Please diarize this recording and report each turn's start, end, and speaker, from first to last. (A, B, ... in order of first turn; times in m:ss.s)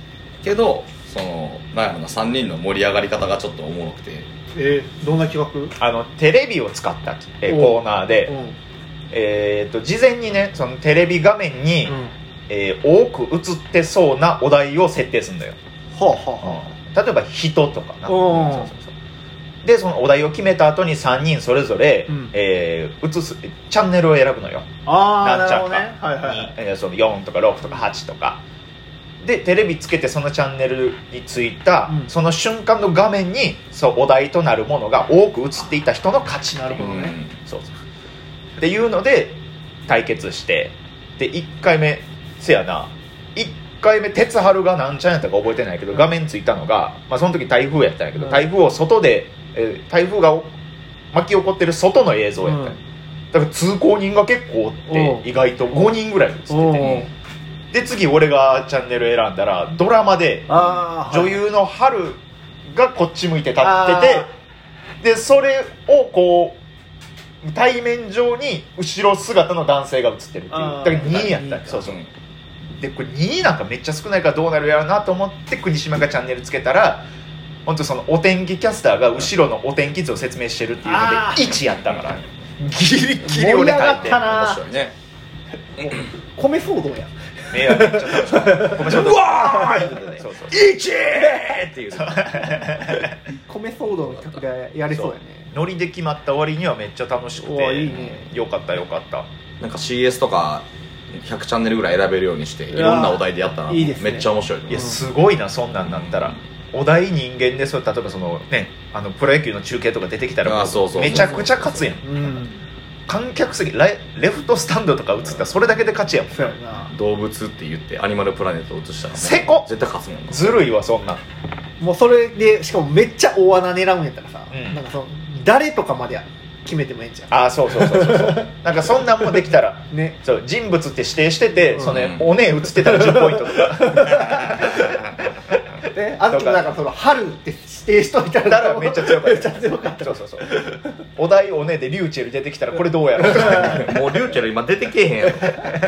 0:00.4-0:04.3 A
0:04.5-0:05.8 B
0:05.8-0:08.3 C
0:07.5-0:08.6 B
0:09.1-0:12.0 C
0:11.9-0:12.1 B
0:12.5-0:15.6 C
0:15.9-0:16.7 B
0:16.4-0:18.9 C
0:18.1-0:18.7 B
0:19.6-0:28.4 C
0:24.9-0:26.5 B
0:29.2-0:37.7 C
0:31.9-0:32.1 B
0:36.6-0:37.1 B
0:36.8-0:37.4 A
0:38.6-0:50.6 C
0:48.2-0:48.5 B
0:51.1-0:52.8 C
0:52.4-0:52.8 B
0:53.3-0:57.1 C
0:54.9-0:55.9 B
0:56.5-0:57.1 B
0:57.7-1:04.3 C
1:00.5-1:01.4 B
1:03.6-1:04.3 B
1:05.0-1:06.6 C
1:07.4-1:12.0 C
1:10.5-1:11.9 B
1:11.8-1:12.1 A
1:12.8-1:17.1 C
1:17.7-1:24.2 C
1:20.8-1:21.6 B
1:23.2-1:24.7 B
1:23.8-1:24.9 A
1:25.8-1:29.9 B
1:27.5-1:30.6 C
1:28.5-1:33.0 A
1:32.0-1:33.1 C
1:33.5-1:35.5 B
1:33.8-1:34.4 A
1:34.9-1:39.3 C
1:37.4-1:38.3 B
1:39.6-1:44.8 A
1:42.7-1:45.0 B
1:44.7-1:52.4 C
1:45.8-1:46.4 A
1:50.4-1:51.9 A
1:51.0-1:51.4 B
1:52.0-1:52.6 B
1:53.1-1:56.5 C
1:56.3-1:56.9 B
1:56.9-2:00.6 A
1:59.2-1:59.7 C
2:00.3-2:01.2 C
2:01.8-2:08.5 B
2:04.5-2:04.8 C
2:07.3-2:15.0 C
2:09.3-2:10.2 B
2:11.8-2:12.3 A
2:12.9-2:14.8 B
2:15.9-2:20.8 B
2:16.3-2:16.7 C
2:18.4-2:20.6 C
2:21.2-2:23.9 C
2:23.2-2:25.8 A
2:23.2-2:24.0 B